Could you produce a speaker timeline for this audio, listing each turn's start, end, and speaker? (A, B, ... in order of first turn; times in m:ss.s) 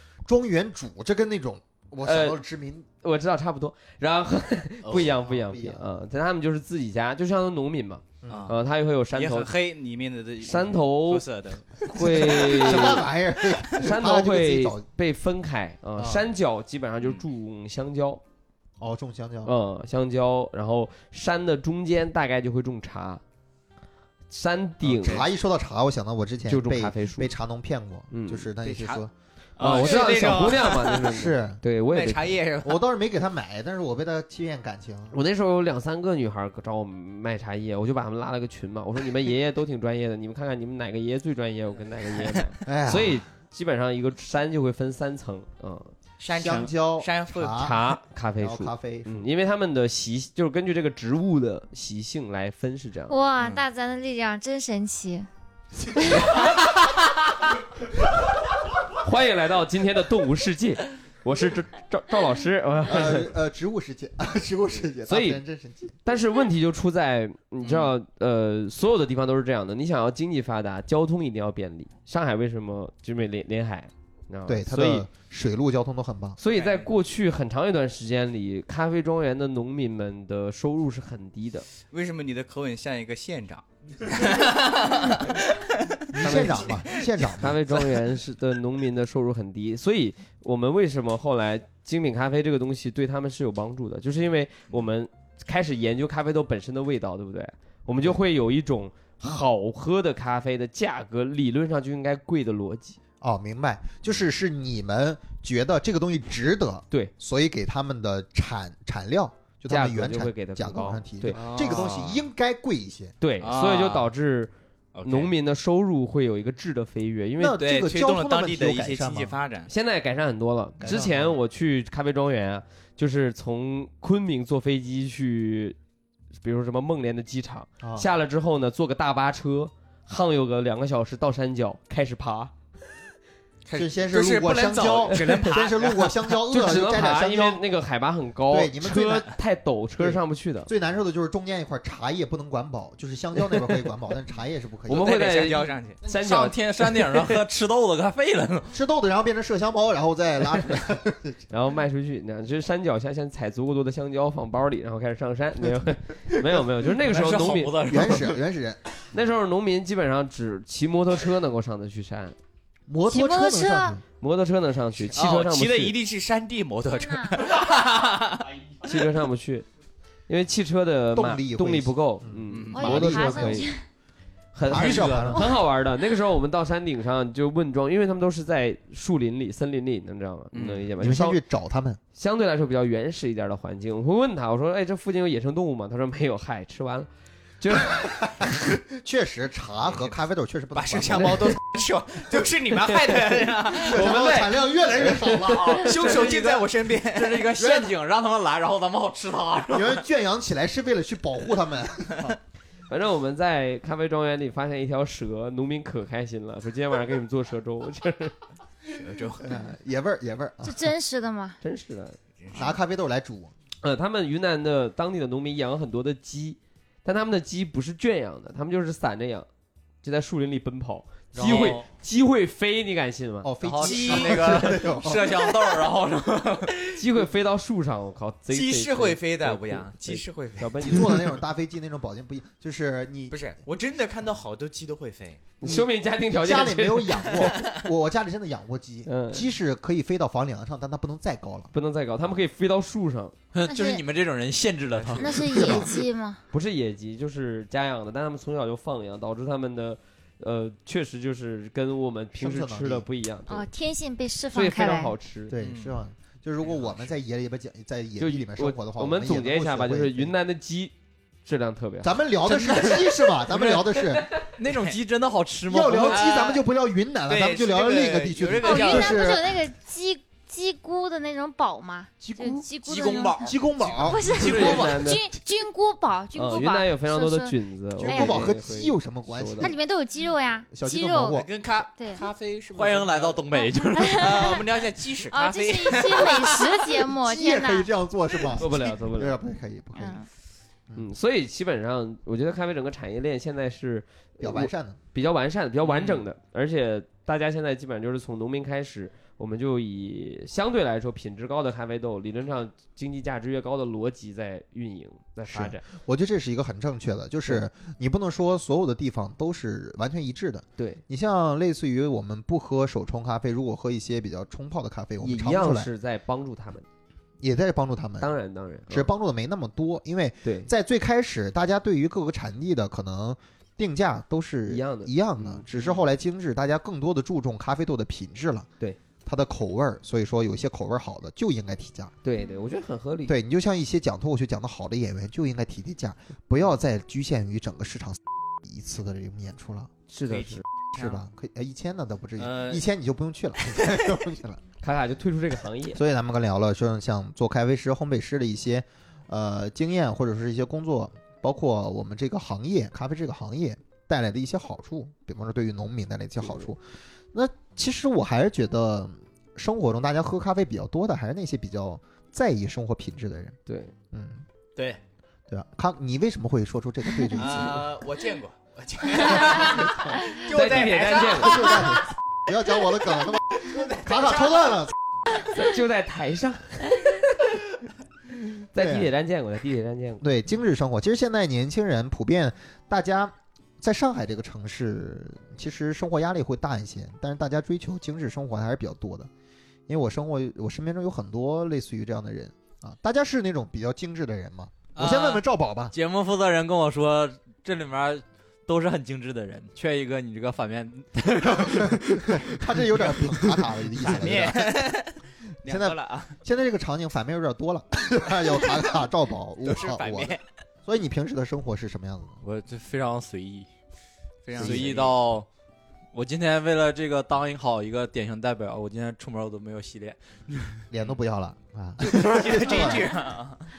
0:00.2-0:02.9 A
0:02.0-0:02.4 B
0:03.0-0:09.5 B
0:04.9-0:05.8 A
0:08.2-0:08.5 A
0:08.3-0:08.6 C
0:09.1-0:12.7 C
0:10.4-0:11.3 B
0:11.9-0:14.9 A
0:11.9-0:13.1 B
0:13.7-0:18.2 B
0:16.0-0:16.3 A
0:18.8-0:19.5 A
0:19.4-0:23.2 B
0:24.3-0:25.3 B
0:24.8-0:29.1 A
0:25.0-0:25.3 C
0:26.5-0:27.3 B
0:28.1-0:28.5 B
0:28.6-0:29.0 C
0:29.6-0:31.0 C
0:29.6-0:32.4 B
0:29.7-0:30.1 A
0:31.0-0:31.6 A
0:31.8-0:32.8 C
0:32.6-0:35.2 A
0:35.1-0:45.9 B
0:42.6-0:43.2 A
0:46.2-0:47.7 C
0:46.4-0:47.8 A
0:47.5-0:53.2 B
0:48.4-0:49.2 A
0:53.1-0:55.3 D
0:56.0-0:56.4 D
0:58.9-1:03.3 B
1:02.8-1:06.0 A
1:05.1-1:05.4 B
1:06.0-1:15.1 B
1:07.6-1:07.9 C
1:14.5-1:16.4 A
1:16.4-1:21.7 B
1:16.5-1:16.9 C
1:21.9-1:27.1 C
1:26.1-1:27.6 A
1:26.2-1:43.0 B
1:43.2-1:53.1 A
1:49.7-1:51.4 B
1:51.3-1:52.2 C
1:53.2-1:54.5 B
1:53.4-1:54.1 C
1:54.9-1:55.3 C
1:55.0-1:57.6 B
1:57.4-1:59.4 A
1:57.6-1:59.7 C
1:59.7-2:05.8 B
2:00.8-2:01.4 A
2:06.4-2:12.5 B
2:07.8-2:08.1 A
2:13.7-2:16.2 C
2:13.7-2:17.6 A
2:16.5-2:20.7 B
2:18.5-2:19.3 A
2:20.0-2:25.3 A
2:24.9-2:27.4 B
2:24.9-2:26.0 C
2:26.0-2:28.8 E
2:28.7-2:31.4 A
2:31.5-2:38.2 B
2:37.0-2:38.4 E
2:37.8-2:38.8 A
2:39.1-2:42.4 B
2:42.9-2:44.0 A
2:43.1-2:44.0 D
2:44.2-2:46.0 B
2:45.0-2:48.5 C
2:47.0-2:47.3 D
2:48.8-2:49.7 B
2:50.3-2:53.7 B
2:51.1-2:53.7 A
2:52.5-2:53.0 C
2:52.7-2:53.8 D
2:54.5-3:01.4 B
2:54.7-2:55.6 A
2:54.7-2:55.3 C
3:00.5-3:00.9 C
3:01.0-3:02.0 A
3:02.2-3:07.1 B
3:07.6-3:08.0 B
3:07.9-3:11.6 A
3:10.7-3:14.3 C
3:13.7-3:15.9 B
3:13.7-3:16.0 A
3:15.7-3:17.9 C
3:16.0-3:20.0 E
3:19.7-3:22.4 A
3:22.9-3:28.4 B
3:28.9-3:29.6 C
3:29.4-3:30.9 A
3:30.6-3:31.6 D
3:31.6-3:32.2 B
3:32.4-3:32.7 C
3:32.5-3:33.5 A
3:33.8-3:39.5 B
3:40.0-3:43.5 B
3:41.4-3:41.8 A
3:41.4-3:41.8 E
3:43.4-3:45.4 A
3:43.6-3:46.7 E
3:43.8-3:46.0 C
3:46.6-3:47.1 C
3:47.0-3:51.3 B
3:48.5-3:51.3 C
3:50.8-3:53.4 A
3:53.3-3:55.4 C
3:55.6-3:57.5 B
3:55.6-4:01.7 A
3:57.4-3:57.8 C
3:59.1-3:59.5 B
4:01.7-4:03.4 B
4:03.5-4:05.6 E
4:03.7-4:04.0 D
4:04.9-4:05.6 C
4:05.2-4:06.4 D
4:05.4-4:05.9 A
4:06.5-4:13.7 B
4:12.4-4:13.1 A
4:13.5-4:15.2 D
4:14.5-4:15.6 B
4:15.5-4:20.4 A
4:15.6-4:16.0 C
4:16.6-4:17.1 C
4:18.2-4:20.9 B
4:21.4-4:22.2 B
4:22.0-4:24.2 A
4:22.7-4:23.1 C
4:23.5-4:23.8 E
4:24.4-4:26.4 E
4:24.7-4:24.9 C
4:25.7-4:29.6 A
4:26.0-4:26.6 C
4:27.3-4:29.3 C
4:28.6-4:38.6 D
4:32.8-4:33.4 E
4:33.0-4:34.7 A
4:33.8-4:35.0 C
4:34.4-4:35.2 B
4:36.3-4:39.7 B
4:38.0-4:39.8 A
4:39.6-4:41.4 D
4:40.7-4:41.5 A
4:41.3-4:43.5 C
4:42.0-4:42.3 D
4:42.8-4:44.6 E
4:43.6-4:44.6 D
4:44.1-4:47.1 C
4:45.3-4:47.9 D
4:47.2-4:50.2 A
4:48.6-4:49.4 B
4:50.0-4:50.3 D
4:51.0-5:05.8 B
4:54.4-4:55.0 A
4:55.9-4:56.2 C
5:05.5-5:15.9 A
5:10.8-5:11.0 B
5:15.2-5:16.8 B
5:17.4-5:18.3 A
5:18.2-5:19.1 B
5:18.9-5:28.7 A
5:20.4-5:20.7 B
5:24.7-5:25.7 B
5:29.2-5:32.1 A
5:32.2-5:33.4 B
5:33.3-5:39.9 A
5:40.1-5:40.6 B
5:40.3-5:41.2 C
5:41.0-5:44.6 A
5:42.4-5:42.8 C
5:44.8-5:46.0 B
5:45.9-5:56.8 A
5:56.4-5:56.7 B
5:57.3-6:03.6 A
6:03.7-6:03.9 B
6:04.1-6:04.4 A
6:05.5-6:07.9 A
6:07.4-6:12.0 C
6:09.5-6:10.1 A
6:10.5-6:11.8 B
6:11.4-6:15.0 A
6:13.6-6:14.5 C
6:15.3-6:17.2 B
6:18.7-6:20.2 B
6:18.8-6:19.1 A
6:20.2-6:29.3 A
6:29.9-6:35.9 A
6:35.0-6:35.4 C
6:35.9-6:43.8 E
6:41.8-6:44.9 A
6:44.0-6:46.4 C
6:45.6-6:52.4 A
6:49.6-6:50.4 C
6:52.4-6:53.7 E
6:54.4-6:55.2 C
6:54.5-6:55.5 E
6:54.6-6:55.0 A
6:56.1-7:00.8 E
7:00.9-7:03.2 A
7:02.0-7:03.7 C